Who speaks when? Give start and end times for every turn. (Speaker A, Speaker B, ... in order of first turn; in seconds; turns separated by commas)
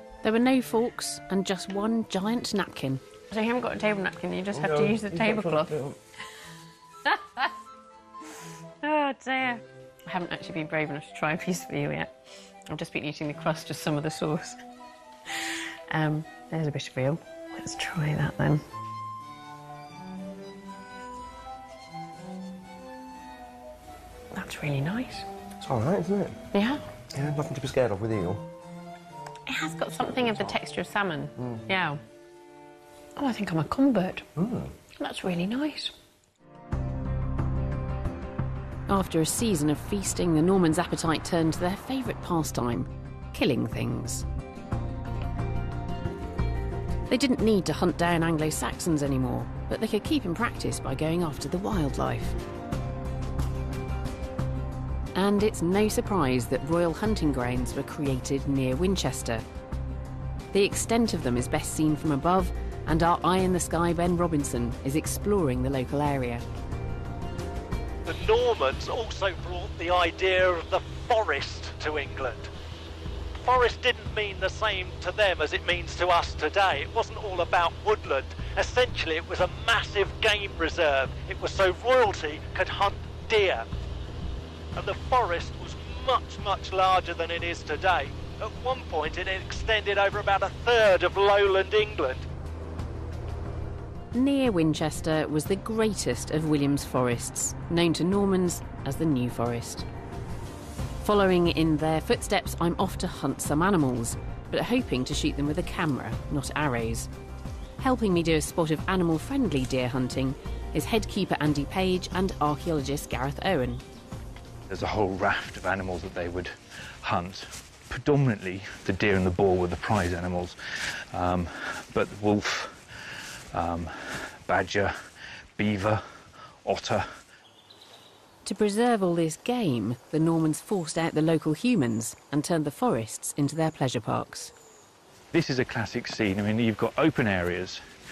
Speaker A: 0.2-3.0, Speaker B: 3.3-5.7, Speaker C: 4.5-6.0, Speaker B: 7.0-7.5, Speaker B: 8.8-12.1, Speaker B: 12.7-14.6, Speaker B: 15.3-18.6, Speaker B: 24.3-25.2, Speaker C: 25.6-26.4, Speaker B: 26.5-26.8, Speaker C: 27.1-28.4, Speaker B: 29.5-32.0, Speaker C: 31.4-31.6, Speaker B: 33.1-34.2, Speaker C: 34.4-34.7, Speaker B: 35.0-35.9, Speaker A: 38.9-44.2, Speaker A: 47.1-52.4, Speaker A: 55.1-59.4, Speaker A: 60.5-66.4, Speaker D: 68.0-72.5, Speaker D: 73.4-83.7, Speaker D: 84.8-92.2, Speaker A: 94.1-99.8, Speaker A: 101.0-107.1, Speaker A: 107.8-113.8, Speaker E: 114.7-120.6, Speaker E: 121.1-125.0, Speaker E: 125.5-127.2, Speaker A: 128.4-134.5, Speaker E: 135.3-137.8